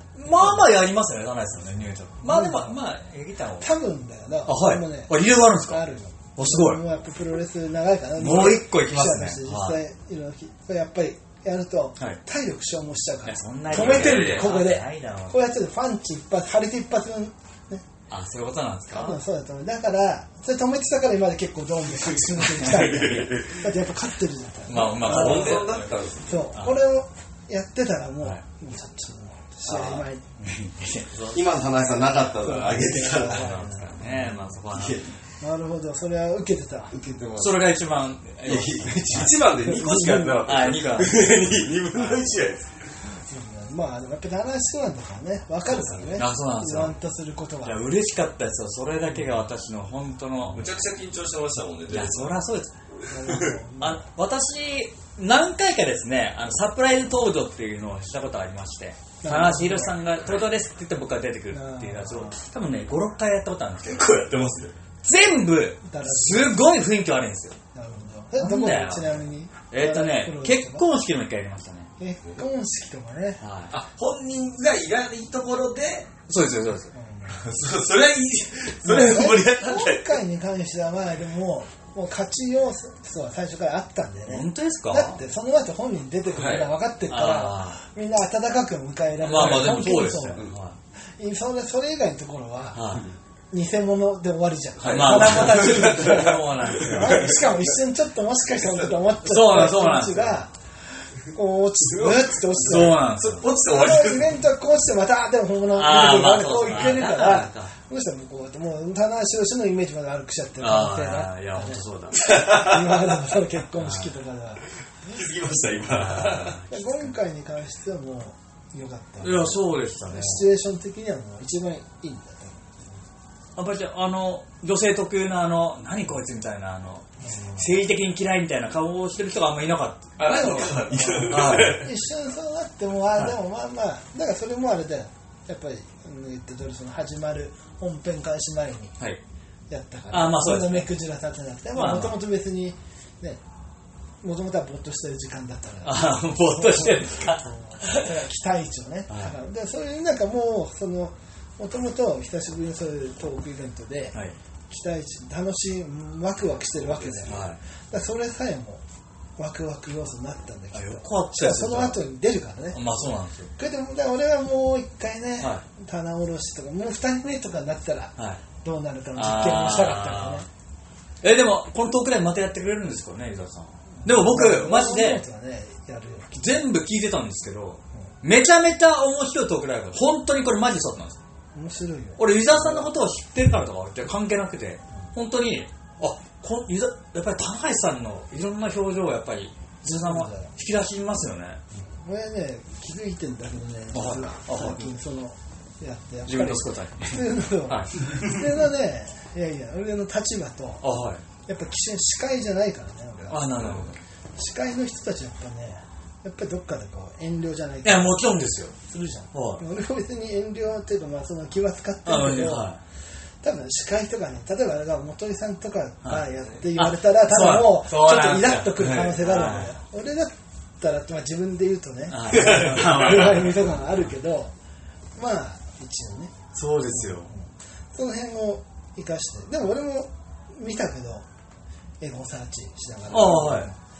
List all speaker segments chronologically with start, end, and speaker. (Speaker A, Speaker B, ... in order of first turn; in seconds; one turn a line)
Speaker A: 0.2-3.7
Speaker B: 0.2-0.7
Speaker B: 2.2-2.8
Speaker B: 3.6-17.8
Speaker A: 4.5-5.8
Speaker A: 6.4-6.8
Speaker A: 8.2-9.8
Speaker A: 13.2-15.4
Speaker C: 13.7-14.4
Speaker A: 18.1-19.2
Speaker B: 18.9-30.2
Speaker C: 22.1-23.6
Speaker A: 24.7-25.9
Speaker C: 25.0-26.5
Speaker A: 26.5-26.8
Speaker C: 29.6-30.1
Speaker A: 30.4-31.4
Speaker C: 31.1-33.6
Speaker B: 31.7-34.5
Speaker A: 33.1-35.0
Speaker C: 34.7-35.1
Speaker B: 35.4-36.9
Speaker C: 36.9-37.7
Speaker A: 37.4-39.3
Speaker C: 38.4-42.9
Speaker B: 39.1-40.5
Speaker A: 40.4-42.4
Speaker B: 43.2-47.8
Speaker C: 45.7-46.1
Speaker A: 46.1-47.0
Speaker A: 47.6-50.7
Speaker C: 50.5-52.4
Speaker A: 51.9-52.7
Speaker B: 53.1-54.0
Speaker C: 53.2-53.5
Speaker A: 53.8-64.0
Speaker B: 59.2-60.0
Speaker B: 61.5-62.4
Speaker C: 63.8-64.8
Speaker A: 65.0-67.6
Speaker B: 65.8-66.7
Speaker B: 67.7-70.9
Speaker A: 68.4-71.9
Speaker B: 72.0-73.4
Speaker A: 73.4-73.7
Speaker C: 73.7-76.1
Speaker A: 76.3-76.9
Speaker B: 76.9-77.5
Speaker C: 77.4-80.2
Speaker B: 78.8-90.5
Speaker A: 84.2-85.2
Speaker C: 86.3-86.7
Speaker A: 87.1-87.8
Speaker A: 89.2-90.8
Speaker B: 91.2-92.8
Speaker A: 92.7-93.1
Speaker B: 93.5-100.5
Speaker C: 94.8-97.6
Speaker A: 94.9-97.3
Speaker A: 99.2-100.5
Speaker B: 101.2-114.6
Speaker C: 101.9-104.4
Speaker A: 102.6-103.5
Speaker A: 105.7-107.7
Speaker A: 110.6-112.2
Speaker C: 112.3-113.1
Speaker A: 113.8-114.1
Speaker C: 115.0-116.6
Speaker A: 115.8-117.2
Speaker B: 116.7-122.8
Speaker A: 119.2-120.5
Speaker A: 123.6-130.2
Speaker B: 127.2-127.7
Speaker C: 130.2-131.9
Speaker B: 130.2-138.9
Speaker A: 131.3-131.8
Speaker B: 139.7-143.4
Speaker A: 140.1-140.9
Speaker A: 141.7-142.2
Speaker B: 144.2-154.2
Speaker A: 145.8-148.1
Speaker A: 149.1-149.3
Speaker B: 154.7-158.8
Speaker C: 156.8-157.4
Speaker A: 157.2-157.6
Speaker B: 159.4-163.0
Speaker A: 160.7-162.0
Speaker A: 162.7-163.5
Speaker B: 163.6-170.4
Speaker A: 168.2-168.4
Speaker A: 169.2-170.4
Speaker A: 171.2-175.2
Speaker B: 174.0-176.7
Speaker A: 176.3-181.2
Speaker B: 181.5-182.9
Speaker A: 182.2-191.6
Speaker B: 190.0-190.5
Speaker B: 192.0-200.8
Speaker A: 193.9-194.9
Speaker A: 196.3-198.2
Speaker A: 200.8-201.2
Speaker B: 201.4-208.2
Speaker A: 203.3-204.0
Speaker A: 207.8-208.8
Speaker B: 208.8-212.8
Speaker A: 209.3-209.6
Speaker A: 212.1-212.8
Speaker B: 213.4-224.5
Speaker A: 216.0-219.7
Speaker A: 222.1-223.7
Speaker B: 225.2-231.2
Speaker A: 226.5-227.3
Speaker B: 232.0-233.8
Speaker A: 233.1-233.7